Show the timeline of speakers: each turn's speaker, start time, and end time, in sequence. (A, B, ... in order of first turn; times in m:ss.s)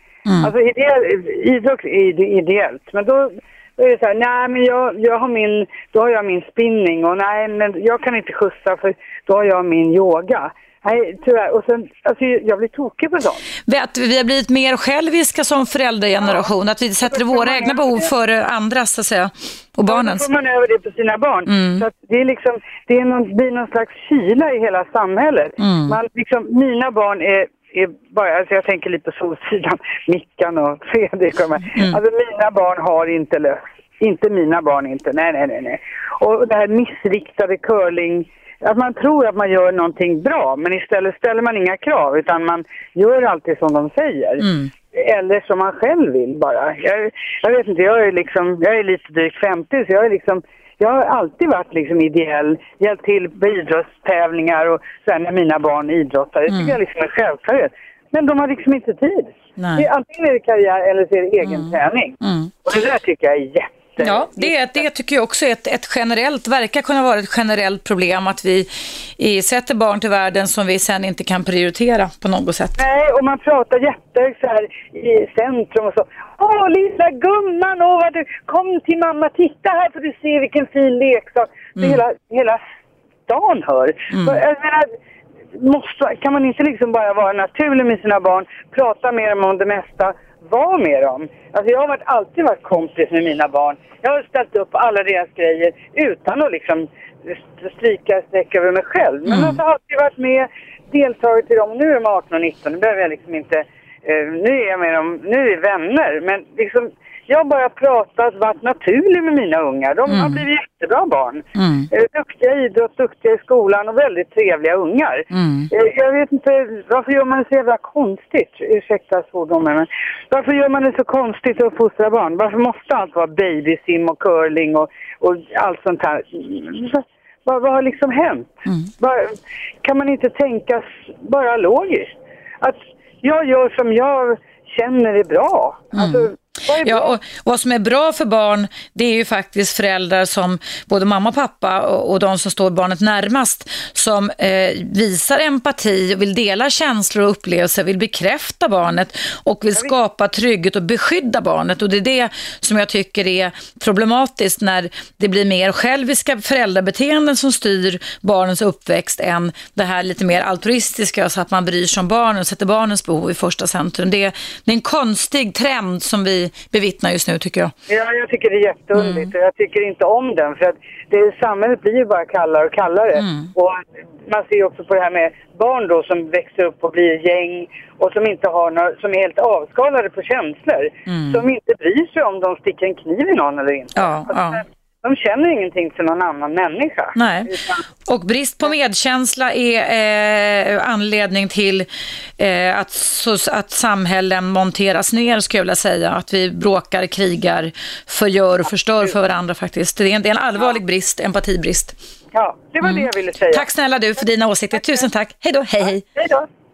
0:00.3-0:00.5 A
0:00.4-0:13.4 B
0:13.7-0:20.3 A
0:16.2-0:16.5 B
0:17.1-0:18.1 B
0:19.9-1:04.6 B
0:21.5-0:21.8 A
0:25.6-0:26.0 A
0:31.7-0:32.0 A
0:44.4-0:44.7 A
0:56.5-0:56.8 A
0:59.6-0:59.9 A
1:01.4-1:02.5 A
1:04.0-1:12.8 A
1:12.8-1:22.6 B
1:23.3-1:24.9 B
1:24.1-1:24.4 A
1:25.5-2:17.2 B
1:39.3-1:39.6 A
1:50.1-1:50.4 A
1:51.6-1:51.9 A
1:55.3-1:55.7 A
2:15.9-2:16.3 A
2:16.8-2:47.7 A
2:47.9-3:07.8 B
2:48.9-2:49.3 A
2:53.1-2:53.5 A
3:01.1-3:01.5 A
3:04.0-3:04.6 A
3:07.2-3:07.5 A
3:08.0-3:22.0 A
3:22.3-3:23.7 B
3:22.8-3:26.0 A
3:26.2-3:26.5 B